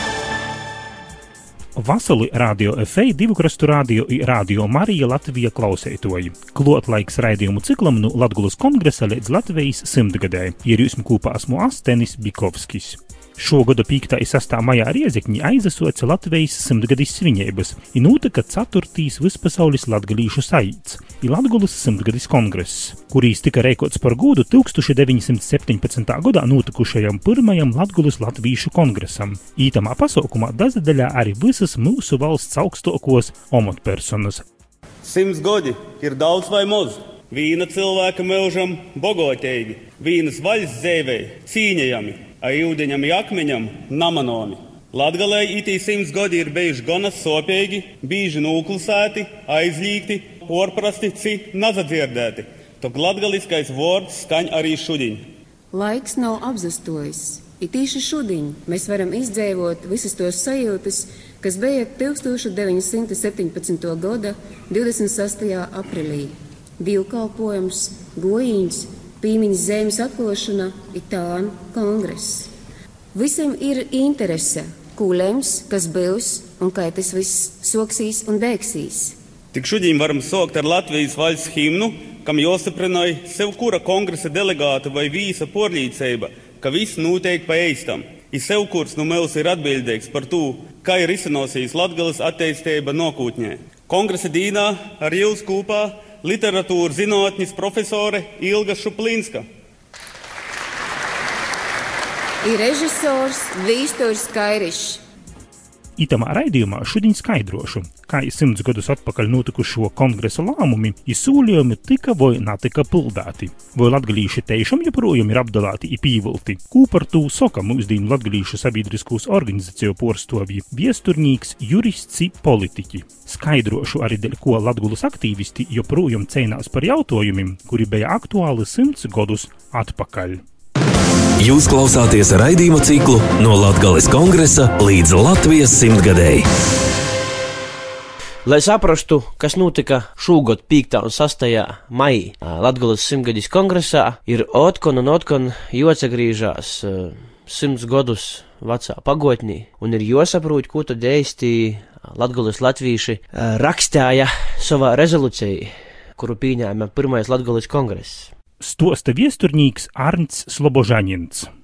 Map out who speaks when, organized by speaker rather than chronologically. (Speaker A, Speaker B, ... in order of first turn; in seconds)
Speaker A: 1.8-34.4, 106.0-130.4, 158.6-161.5
Speaker B: 35.0-55.2, 79.5-99.5
Speaker C: 55.7-72.5, 73.1-79.2, 102.4-105.0
Speaker D: 131.4-136.5
Speaker E: 138.4-158.3